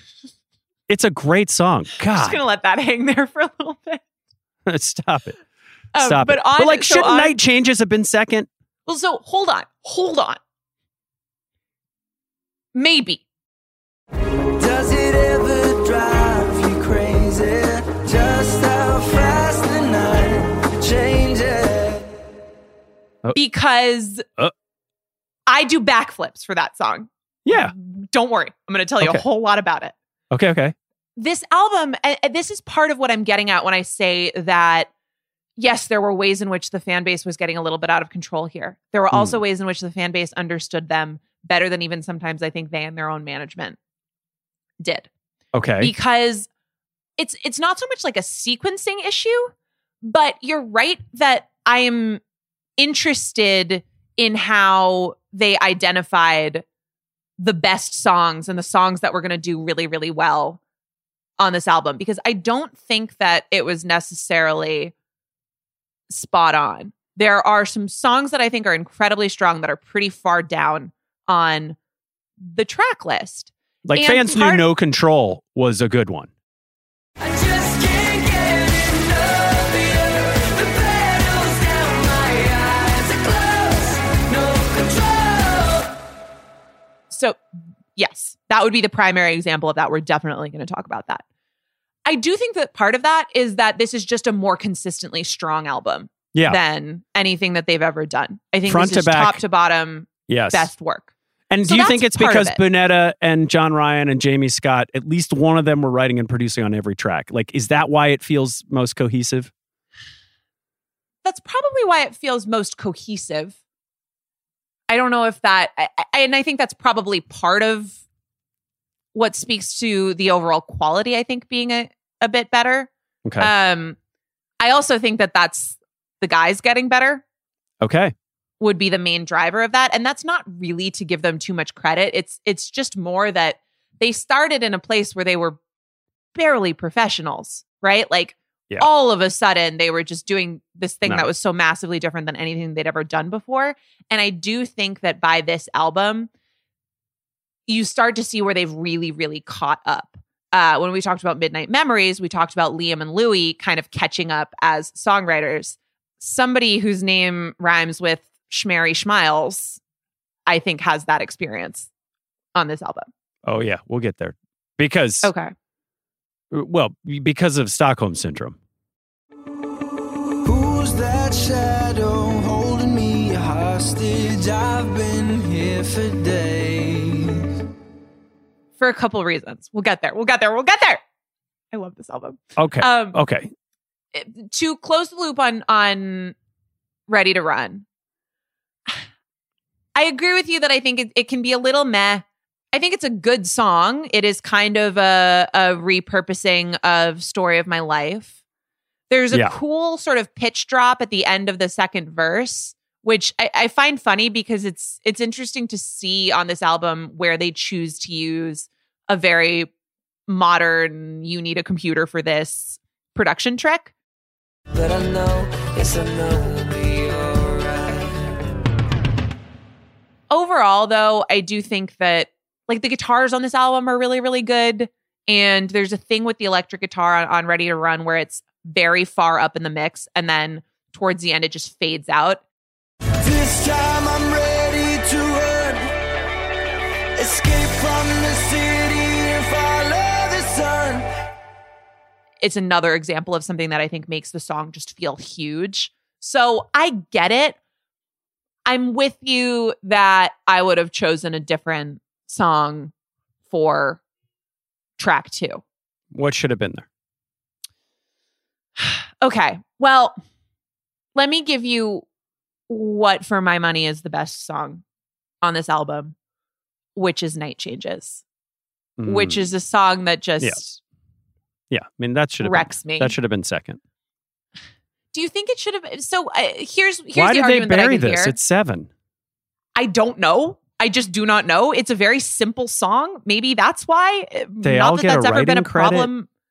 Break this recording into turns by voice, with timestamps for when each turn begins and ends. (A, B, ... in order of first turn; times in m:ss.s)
0:00.9-0:02.4 A
0:02.1-0:04.0 B
0:04.6-0:05.4 A
0:05.9-0:07.3 B
0:06.0-0:08.5 A
0:08.8-0:10.4 B
0:12.7-0:13.2 B
0:14.6-0:22.0 C
0:23.3-0:24.2 B
0:25.5-0:29.9 B
0:27.4-0:27.7 A
0:30.3-0:30.7 A
0:31.2-0:34.9 B
0:35.6-0:43.8 B
0:39.1-0:39.4 A
0:44.8-0:45.1 B
0:45.5-0:45.9 A
0:45.8-0:46.5 B
0:47.2-0:52.2 B
0:52.8-0:56.6 B
0:57.4-1:00.6 B
1:01.4-1:04.9 B
1:06.1-1:11.8 B
1:12.4-1:14.6 B
1:13.8-1:16.3 A
1:17.2-1:25.8 C
1:27.1-1:27.4 B
1:27.9-1:31.2 B
1:32.0-1:41.1 B
1:36.3-1:36.6 A
1:38.6-1:39.4 A
1:40.3-1:40.7 A
1:41.5-1:49.5 A
1:41.6-1:42.6 B
1:51.2-1:53.6 B
1:54.9-1:58.0 B
1:59.1-2:04.0 B
2:03.2-2:03.5 A
2:04.6-2:07.2 B
2:07.8-2:08.1 A
2:08.6-2:15.6 B
2:16.3-2:26.3 B
2:27.7-2:39.8 B
2:40.5-2:41.9 B
2:42.5-2:43.1 B
2:43.4-2:45.3 A
2:45.2-2:45.5 B
2:46.5-2:48.6 A
2:50.4-2:57.4 C
2:58.8-3:01.0 B
3:01.7-3:03.2 B
3:02.6-3:03.5 A
3:04.1-3:06.3 B
3:07.1-3:07.8 B
3:09.9-3:18.4 B
3:19.1-3:29.7 B
3:30.3-3:33.9 B
3:34.7-3:38.1 C
3:40.3-3:52.4 B
3:53.2-3:55.9 C
3:57.2-4:01.1 C
4:02.4-4:07.6 B
4:08.6-4:12.9 B
4:13.5-4:14.0 B
4:15.0-4:15.6 B
4:16.1-4:16.8 A
4:18.8-4:20.2 B
4:21.1-4:22.0 B
4:22.7-4:24.8 B
4:25.4-4:26.1 B
4:27.0-4:28.2 B
4:29.0-4:29.5 A
4:29.0-4:30.8 B
4:31.7-4:33.8 A
4:32.4-4:33.1 B
4:35.1-4:38.4 B
4:37.1-4:38.9 A
4:39.7-4:46.3 B
4:44.6-4:46.1 A